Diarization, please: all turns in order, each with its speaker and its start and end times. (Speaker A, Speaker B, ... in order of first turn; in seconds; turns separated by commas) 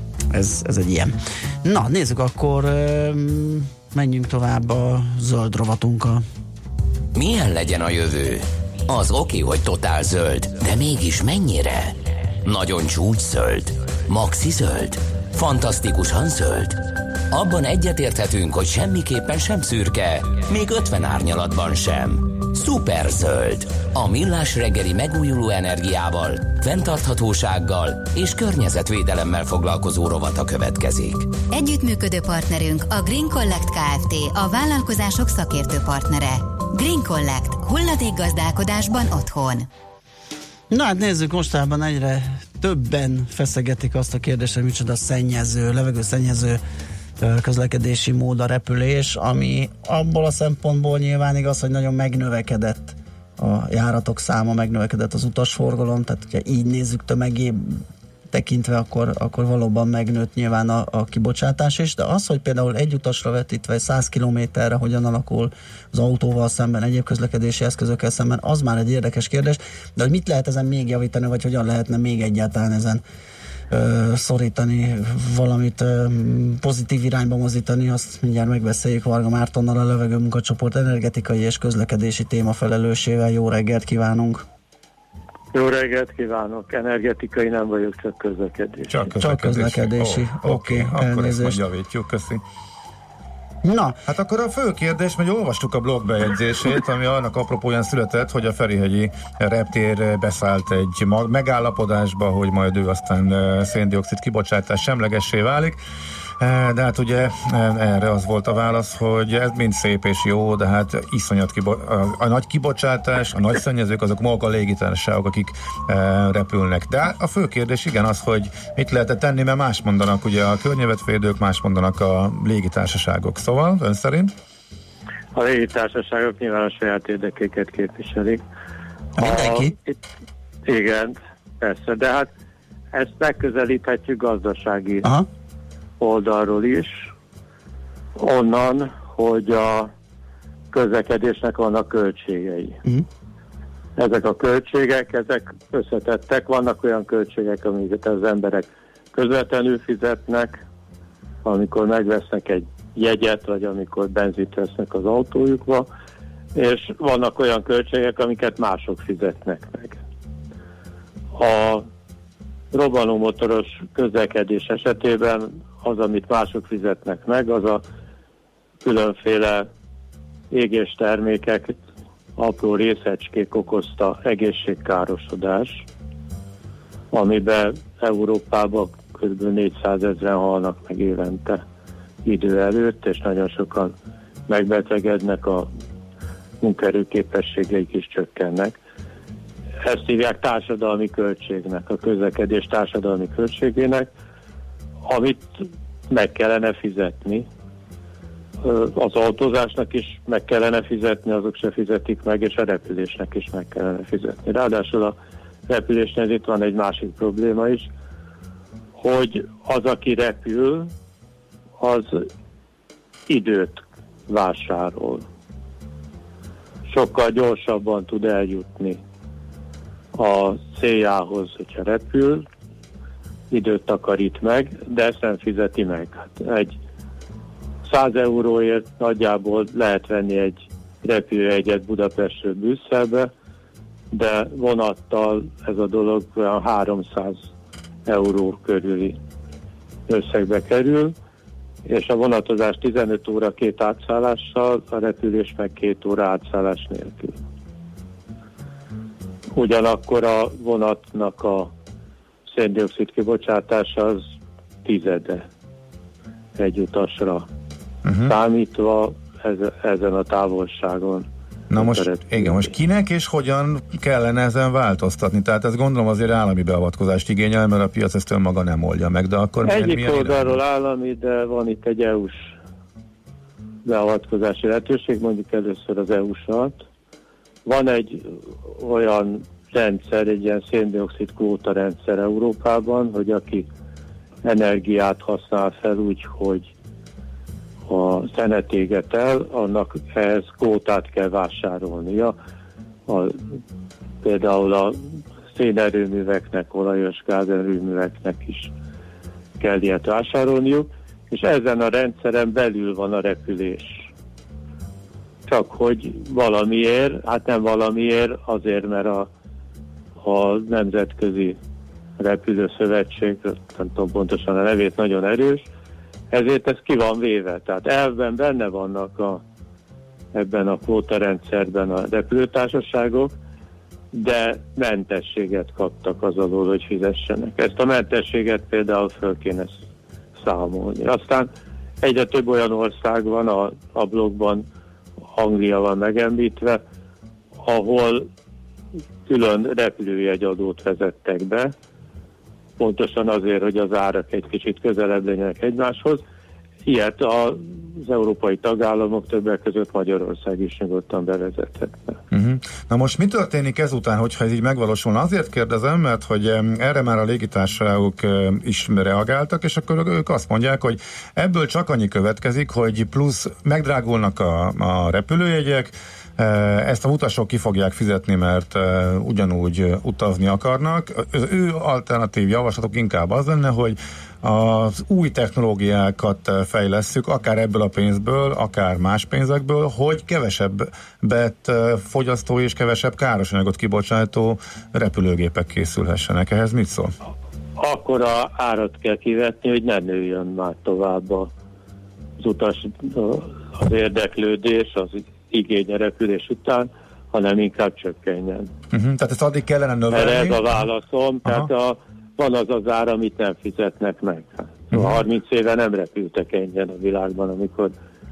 Speaker A: 0.3-6.2, Speaker B: 7.1-31.3, Speaker C: 31.5-39.7, Speaker A: 40.7-46.6, Speaker A: 47.2-73.0, Speaker A: 73.7-84.4, Speaker D: 85.5-89.0, Speaker E: 88.9-92.4, Speaker A: 89.2-91.6, Speaker A: 93.6-94.0, Speaker E: 94.1-105.8, Speaker E: 106.4-124.3, Speaker D: 125.3-128.4, Speaker A: 129.2-129.7, Speaker D: 129.2-130.0, Speaker D: 130.6-132.3, Speaker D: 132.9-135.1, Speaker D: 136.0-137.1, Speaker D: 138.2-139.9, Speaker D: 140.7-142.8, Speaker D: 144.0-150.6, Speaker D: 151.4-155.9, Speaker D: 156.5-160.0, Speaker D: 161.3-161.9, Speaker D: 162.7-167.8, Speaker D: 168.8-169.7, Speaker D: 170.5-171.8, Speaker D: 172.4-175.8, Speaker D: 177.1-181.6, Speaker D: 182.2-183.9, Speaker D: 184.5-185.7, Speaker D: 186.6-188.8, Speaker D: 189.8-194.1, Speaker D: 195.1-197.5, Speaker D: 198.6-205.2, Speaker D: 205.7-207.9, Speaker D: 209.0-210.9, Speaker D: 211.8-212.3, Speaker D: 213.3-215.2, Speaker D: 216.9-219.0, Speaker D: 220.1-222.4, Speaker D: 223.5-226.8, Speaker D: 227.8-233.3, Speaker D: 234.1-237.5, Speaker D: 238.1-239.2, Speaker D: 240.1-241.1, Speaker D: 241.8-247.4, Speaker D: 249.5-251.7, Speaker D: 252.5-254.3, Speaker D: 254.8-255.5, Speaker D: 256.6-257.5, Speaker E: 258.0-258.4, Speaker D: 258.2-262.7, Speaker E: 261.7-270.6, Speaker D: 269.6-272.5, Speaker D: 273.8-276.8, Speaker D: 277.6-283.7, Speaker D: 284.4-286.7, Speaker D: 287.9-292.4, Speaker D: 293.1-293.4, Speaker D: 294.2-295.0, Speaker D: 295.5-298.7, Speaker D: 299.6-304.1, Speaker D: 305.5-309.3, Speaker D: 310.2-311.6, Speaker D: 312.2-315.6, Speaker D: 316.3-319.4, Speaker D: 320.3-323.3, Speaker D: 324.1-329.8, Speaker D: 330.4-331.5, Speaker D: 332.0-334.6, Speaker D: 335.3-336.8, Speaker D: 337.6-338.3, Speaker D: 339.2-341.7, Speaker D: 342.8-346.2, Speaker D: 346.8-352.2, Speaker E: 352.3-387.1, Speaker D: 387.8-391.5, Speaker D: 392.4-398.7, Speaker E: 398.9-400.8, Speaker D: 400.1-407.9, Speaker E: 404.9-405.2